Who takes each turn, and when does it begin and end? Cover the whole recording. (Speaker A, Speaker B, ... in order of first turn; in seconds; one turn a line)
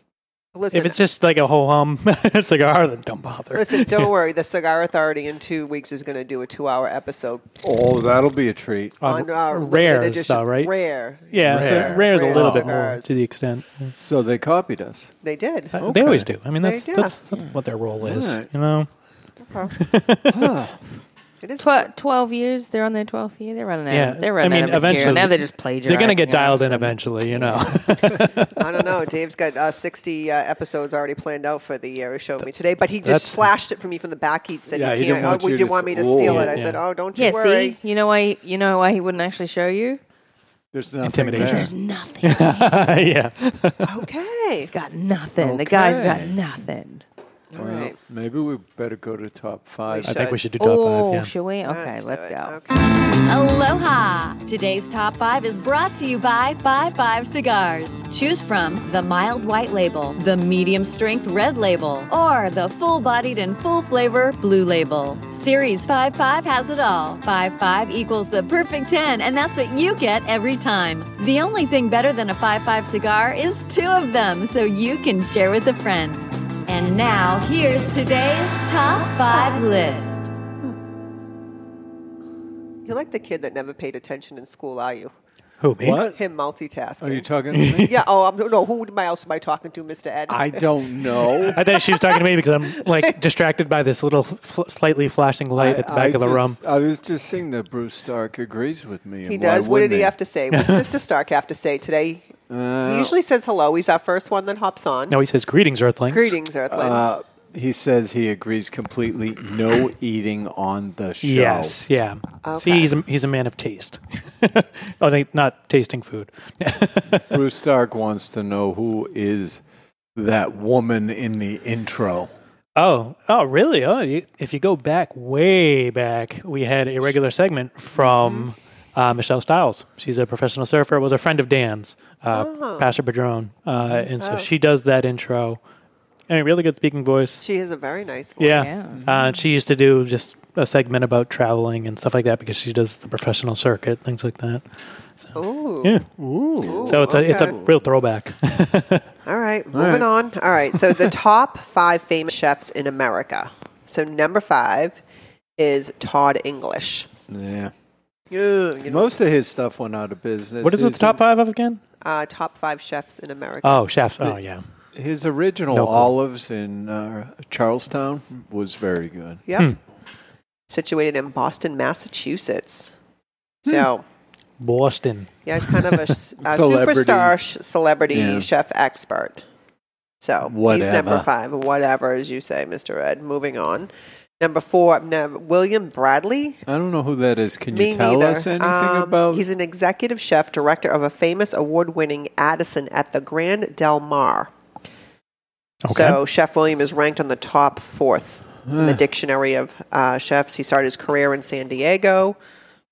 Speaker A: 0.6-1.0
Speaker B: 0.7-4.1
Speaker A: 3.5-7.5
Speaker C: 7.6-9.0
Speaker B: 9.0-10.7
Speaker A: 9.0-13.2
Speaker B: 11.3-13.9
Speaker C: 11.5-12.7
Speaker C: 14.0-15.1
Speaker A: 15.2-15.8
Speaker C: 15.8-16.3
Speaker B: 15.8-18.9
Speaker A: 16.6-17.2
Speaker C: 18.0-18.5
Speaker A: 19.4-19.8
Speaker B: 19.8-20.3
Speaker C: 20.3-20.8
Speaker A: 21.4-21.9
Speaker D: 21.6-27.8
Speaker B: 23.9-28.9
Speaker A: 28.6-37.8
Speaker B: 33.0-33.5
Speaker C: 34.7-36.6
Speaker B: 36.2-36.8
Speaker D: 37.1-40.0
Speaker C: 40.7-41.7
Speaker B: 41.0-41.7
Speaker D: 41.4-43.0
Speaker B: 42.2-43.9
Speaker A: 43.9-44.7
Speaker D: 44.6-47.0
Speaker C: 45.4-46.4
Speaker A: 47.5-48.0
Speaker C: 47.6-50.4
Speaker A: 49.9-50.4
Speaker B: 50.1-51.3
Speaker D: 50.6-52.6
Speaker A: 51.6-52.9
Speaker E: 53.2-80.3
Speaker A: 82.8-85.1
Speaker B: 85.6-86.1
Speaker C: 85.8-86.2
Speaker A: 86.1-93.1
Speaker C: 87.0-88.0
Speaker B: 87.5-88.0
Speaker C: 90.3-91.6
Speaker B: 91.5-96.6
Speaker C: 95.5-100.2
Speaker A: 99.3-105.2
Speaker B: 100.5-100.9
Speaker C: 102.5-103.2
Speaker B: 105.1-106.4
Speaker A: 106.1-107.1
Speaker C: 106.7-111.8
Speaker B: 111.2-117.4
Speaker A: 112.4-112.9
Speaker C: 117.3-119.6
Speaker C: 120.2-122.3
Speaker B: 122.8-135.6
Speaker C: 128.1-128.4
Speaker A: 132.3-132.9
Speaker A: 134.2-134.5
Speaker B: 136.3-137.4
Speaker A: 137.4-138.8
Speaker B: 138.4-144.6
Speaker D: 138.5-139.0
Speaker C: 138.9-139.3
Speaker B: 145.2-146.1
Speaker A: 145.3-146.0
Speaker C: 146.2-147.7
Speaker A: 146.6-147.6
Speaker B: 146.8-149.1
Speaker A: 149.3-155.0
Speaker C: 149.7-150.1
Speaker C: 150.7-151.1
Speaker A: 155.6-157.1
Speaker C: 157.3-157.7
Speaker A: 158.3-159.1
Speaker C: 158.8-161.2
Speaker B: 160.6-161.8
Speaker A: 162.0-163.9
Speaker B: 163.6-164.6
Speaker C: 164.9-169.4
Speaker B: 165.7-166.1
Speaker A: 169.5-169.8
Speaker A: 170.7-172.9
Speaker A: 173.6-174.0
Speaker B: 174.6-176.1
Speaker A: 175.4-179.4
Speaker C: 176.4-177.4
Speaker C: 178.1-178.5
Speaker A: 180.2-186.6
Speaker C: 180.4-181.3
Speaker C: 186.7-189.5
Speaker A: 187.7-194.5
Speaker B: 195.9-196.2
Speaker A: 195.9-202.4
Speaker C: 198.7-199.0